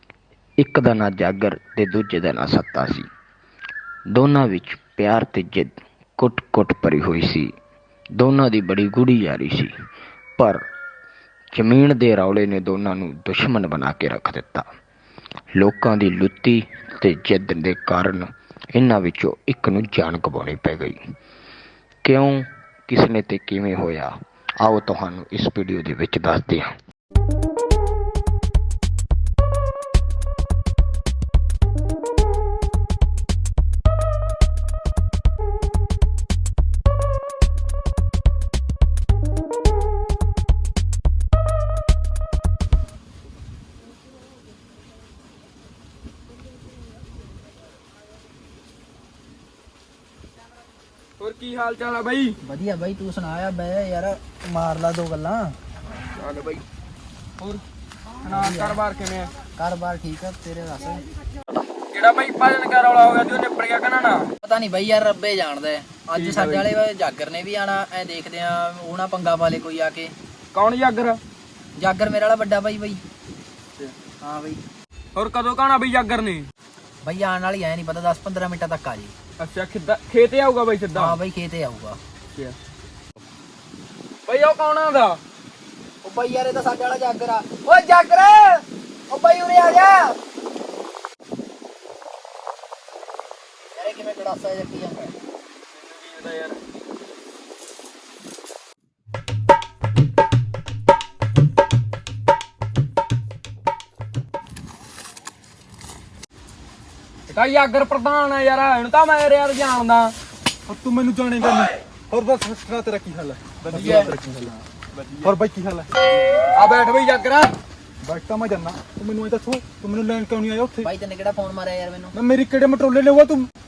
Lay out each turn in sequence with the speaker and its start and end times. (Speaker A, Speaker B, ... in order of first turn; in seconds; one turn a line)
Speaker A: 0.6-3.1
Speaker A: 4.1-7.5
Speaker A: 8.1-9.7
Speaker A: 11.5-14.7
Speaker A: 15.6-21.0
Speaker A: 22.1-26.7
Speaker B: 51.2-52.4
Speaker C: 52.4-55.5
Speaker B: 56.2-56.6
Speaker B: 58.2-59.3
Speaker C: 58.2-58.8
Speaker C: 59.5-61.0
Speaker B: 61.9-64.3
Speaker C: 64.4-70.1
Speaker B: 66.1-66.7
Speaker B: 70.5-71.2
Speaker C: 71.8-73.0
Speaker C: 74.2-74.6
Speaker B: 75.1-76.5
Speaker C: 77.0-79.1
Speaker B: 79.4-81.2
Speaker C: 80.9-82.0
Speaker B: 84.2-85.2
Speaker C: 86.0-90.2
Speaker C: 93.7-95.1
Speaker B: 95.7-96.6
Speaker B: 107.3-110.1
Speaker D: 110.7-114.5
Speaker B: 113.6-115.3
Speaker C: 113.8-114.1
Speaker D: 115.2-115.9
Speaker B: 116.5-117.5
Speaker D: 118.0-120.9
Speaker C: 120.8-122.1
Speaker D: 122.1-123.5